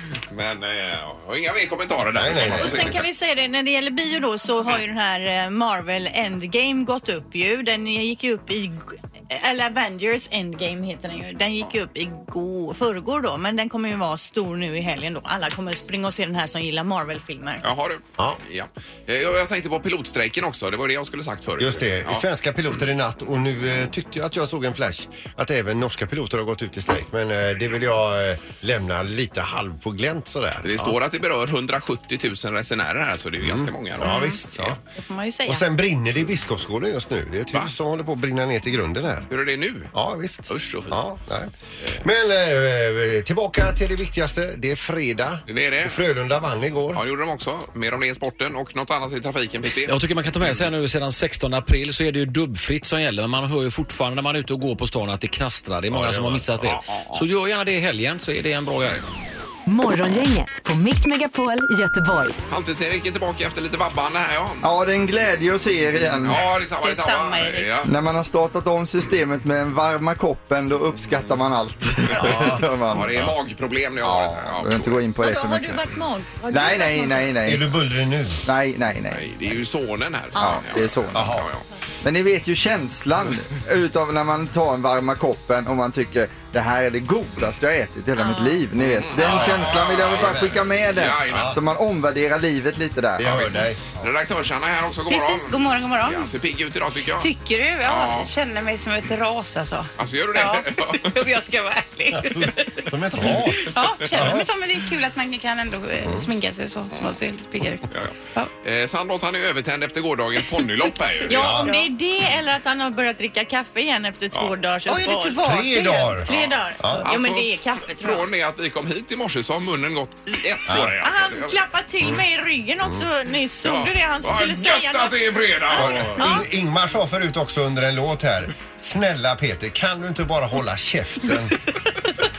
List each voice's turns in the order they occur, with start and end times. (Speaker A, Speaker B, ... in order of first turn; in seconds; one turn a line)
Speaker A: 0.1-3.0
Speaker B: 2.1-3.0
Speaker C: 2.4-17.6
Speaker A: 17.6-22.2
Speaker B: 21.6-30.9
Speaker A: 30.6-34.8
Speaker B: 33.4-34.8
Speaker C: 34.0-34.4
Speaker C: 34.9-35.6
Speaker B: 35.5-39.3
Speaker A: 39.3-39.9
Speaker B: 39.9-47.0
Speaker A: 40.5-41.0
Speaker A: 45.5-46.0
Speaker A: 46.9-49.9
Speaker D: 49.9-59.0
Speaker B: 55.9-56.7
Speaker A: 56.9-57.2
Speaker E: 59.6-62.4
Speaker A: 62.5-64.7
Speaker F: 64.6-66.4
Speaker A: 66.2-67.9
Speaker G: 66.8-67.7
Speaker F: 67.8-73.1
Speaker B: 72.1-73.3
Speaker A: 72.2-75.0
Speaker F: 74.0-75.9
Speaker C: 75.2-77.3
Speaker F: 76.5-77.7
Speaker B: 77.4-78.4
Speaker F: 78.4-79.2
Speaker A: 79.1-81.7
Speaker C: 80.3-80.6
Speaker F: 80.3-81.3
Speaker B: 81.1-81.5
Speaker F: 82.0-93.3
Speaker C: 88.2-88.6
Speaker A: 88.8-91.6
Speaker B: 89.2-90.6
Speaker B: 91.3-91.6
Speaker B: 93.2-94.0
Speaker A: 93.2-97.3
Speaker G: 95.1-96.3
Speaker G: 97.2-102.9
Speaker A: 97.8-98.3
Speaker A: 100.0-101.1
Speaker B: 102.1-104.5
Speaker G: 103.5-108.5
Speaker A: 104.0-104.4
Speaker A: 107.9-111.6
Speaker C: 111.3-118.2
Speaker B: 111.3-111.7
Speaker G: 111.6-111.9
Speaker G: 114.8-116.2
Speaker B: 115.4-117.1
Speaker A: 117.0-121.6
Speaker B: 120.7-120.9
Speaker C: 121.0-125.2
Speaker A: 123.6-126.2
Speaker C: 125.7-126.5
Speaker B: 125.8-131.5